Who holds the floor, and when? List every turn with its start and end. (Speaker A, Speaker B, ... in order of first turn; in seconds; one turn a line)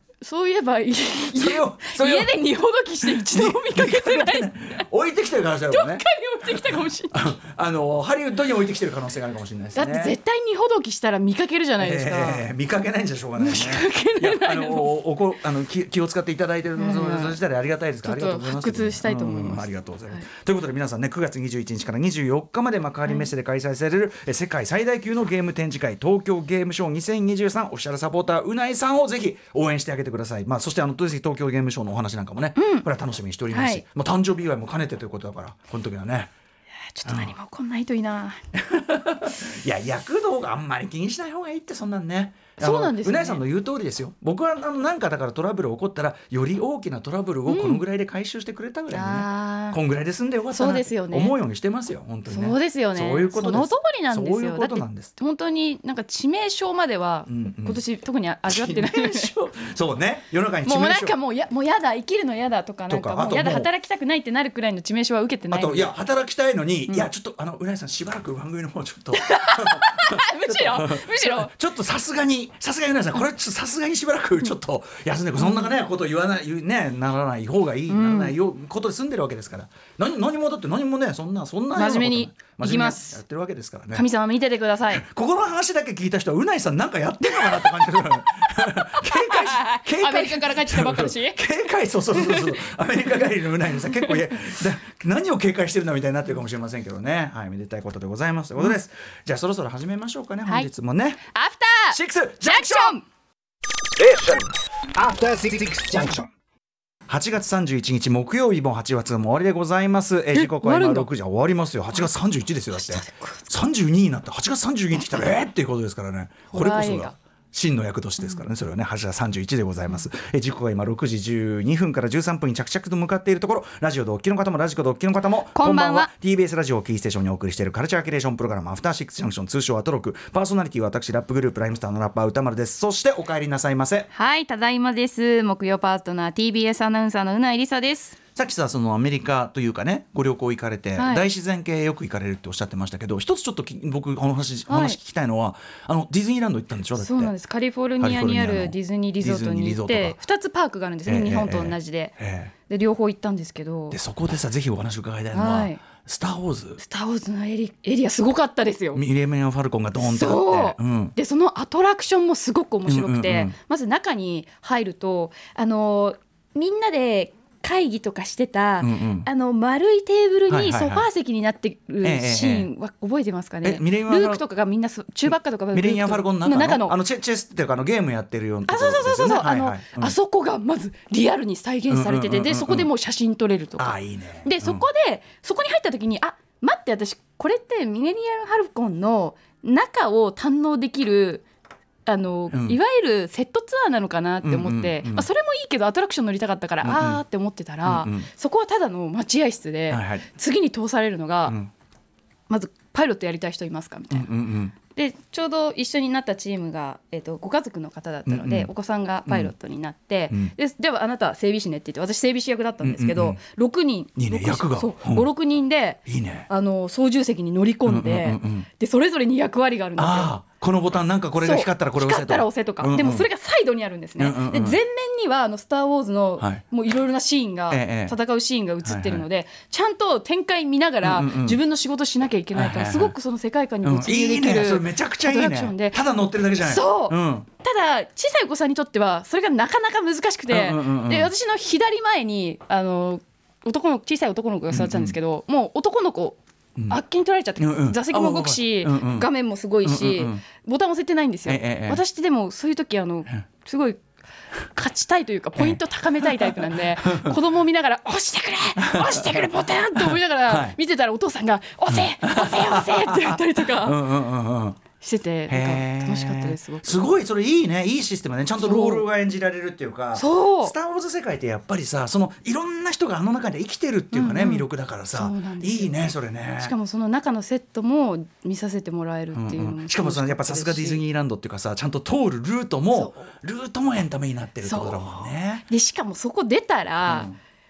Speaker A: 0.2-4.8
Speaker B: 1.3-2.4
Speaker B: 3.0-10.2
Speaker A: 5.7-7.3
Speaker A: 9.7-12.4
Speaker B: 11.8-36.3
Speaker A: 13.4-14.9
Speaker A: 16.8-17.4
Speaker A: 18.0-20.2
Speaker A: 32.5-32.9
Speaker A: 33.5-33.8
Speaker A: 36.9-38.4
Speaker B: 37.0-37.3
Speaker B: 38.5-55.1
Speaker A: 42.6-43.4
Speaker A: 47.5-47.8
Speaker A: 48.9-49.8
Speaker A: 50.5-51.3
Speaker A: 52.3-59.3
Speaker B: 57.3-57.8
Speaker B: 58.5-61.1
Speaker A: 60.6-65.9
Speaker B: 62.9-63.7
Speaker B: 65.5-84.1
Speaker A: 69.1-71.5
Speaker A: 75.4-75.7
Speaker A: 77.9-78.3
Speaker A: 81.7-83.2
Speaker A: 83.9-85.0
Speaker B: 84.9-101.2
Speaker A: 87.4-91.4
Speaker A: 92.1-92.5
Speaker A: 101.3-103.0
Speaker B: 101.9-103.0
Speaker C: 104.0-106.3
Speaker B: 107.1-134.1
Speaker A: 110.3-111.1
Speaker A: 112.7-113.4
Speaker A: 116.5-117.1
Speaker A: 125.5-126.1
Speaker A: 134.1-138.2
Speaker B: 138.3-147.3
Speaker A: 141.0-141.2
Speaker A: 144.7-145.0
Speaker A: 147.0-152.1
Speaker B: 148.0-150.2
Speaker B: 151.1-152.5
Speaker A: 152.7-154.0
Speaker B: 153.9-156.8
Speaker A: 155.3-155.8
Speaker A: 156.8-159.0
Speaker B: 158.9-161.1
Speaker A: 160.0-176.9
Speaker B: 162.8-163.5
Speaker B: 168.8-169.3
Speaker B: 170.5-171.1
Speaker B: 172.0-172.7
Speaker B: 173.6-174.4
Speaker B: 175.2-180.1
Speaker A: 178.7-191.4
Speaker B: 181.9-182.9
Speaker B: 183.8-184.8
Speaker A: 192.1-201.6
Speaker B: 192.5-192.8
Speaker B: 194.4-195.3
Speaker B: 196.8-197.2
Speaker B: 197.8-198.3
Speaker B: 199.9-200.2
Speaker B: 201.4-201.7
Speaker A: 202.5-220.4
Speaker B: 204.1-204.7
Speaker B: 208.3-208.7
Speaker B: 209.3-209.5
Speaker B: 212.8-213.4
Speaker B: 214.2-215.3
Speaker B: 216.1-216.5
Speaker B: 217.8-218.7
Speaker B: 220.0-223.3
Speaker A: 221.4-236.0
Speaker B: 224.2-224.8
Speaker B: 227.7-228.2
Speaker B: 228.8-229.2
Speaker B: 231.0-231.6
Speaker B: 232.5-233.1
Speaker B: 233.8-237.5
Speaker A: 236.6-254.0
Speaker B: 240.5-241.3
Speaker B: 244.7-245.1
Speaker B: 247.6-249.3
Speaker B: 249.8-250.4
Speaker B: 251.4-252.0
Speaker A: 254.7-264.0
Speaker B: 255.6-257.4
Speaker B: 258.8-260.8
Speaker B: 261.9-264.8
Speaker A: 265.0-267.1
Speaker B: 265.5-276.7
Speaker A: 268.6-269.0
Speaker A: 270.1-270.7
Speaker A: 274.1-276.1
Speaker A: 276.6-281.0
Speaker B: 279.3-285.6
Speaker A: 282.9-283.3
Speaker A: 284.6-287.3
Speaker B: 287.0-287.4